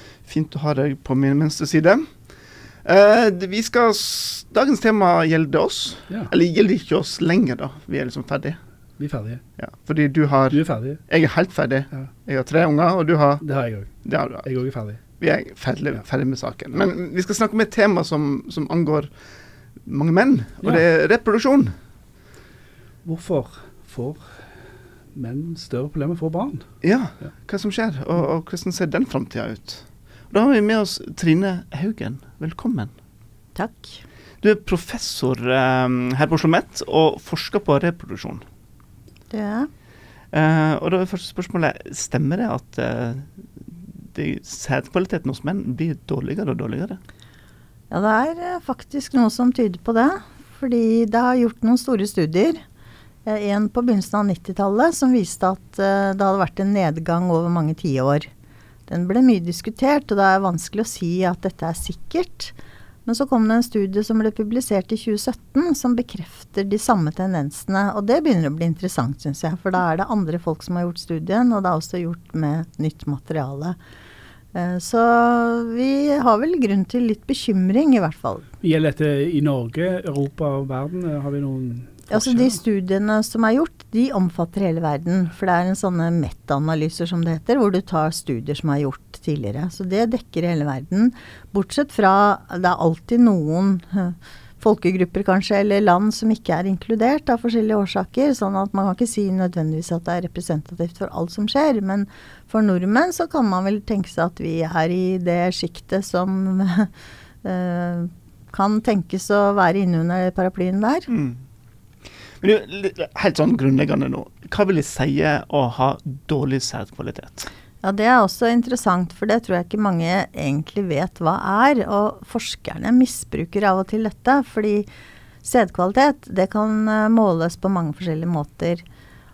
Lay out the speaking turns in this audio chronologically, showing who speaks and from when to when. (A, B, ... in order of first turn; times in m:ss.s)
0:00.2-0:08.6 A
0:09.0-0:09.4 B
0:09.6-0:13.4 A
0:10.5-0:11.0 B
0:13.4-0:15.0 B
0:14.0-0:14.5 A
0:15.2-0:19.2 A
0:19.8-0:21.8 A
0:23.0-0:27.3 B
0:26.8-0:32.9 A
0:33.5-0:34.0 C
0:34.4-0:38.4 A
0:39.3-0:39.7 C
0:40.3-0:47.0 A
0:47.9-0:52.6 C
0:53.2-0:58.3 C
0:58.9-1:13.8 C
1:14.5-1:18.5 C
1:18.6-1:22.6 B
1:22.1-1:46.9 C
1:47.4-1:51.1 C
1:51.1-1:51.4 A
1:52.3-1:57.5 A
1:57.8-2:04.9 C
2:05.4-2:08.8 C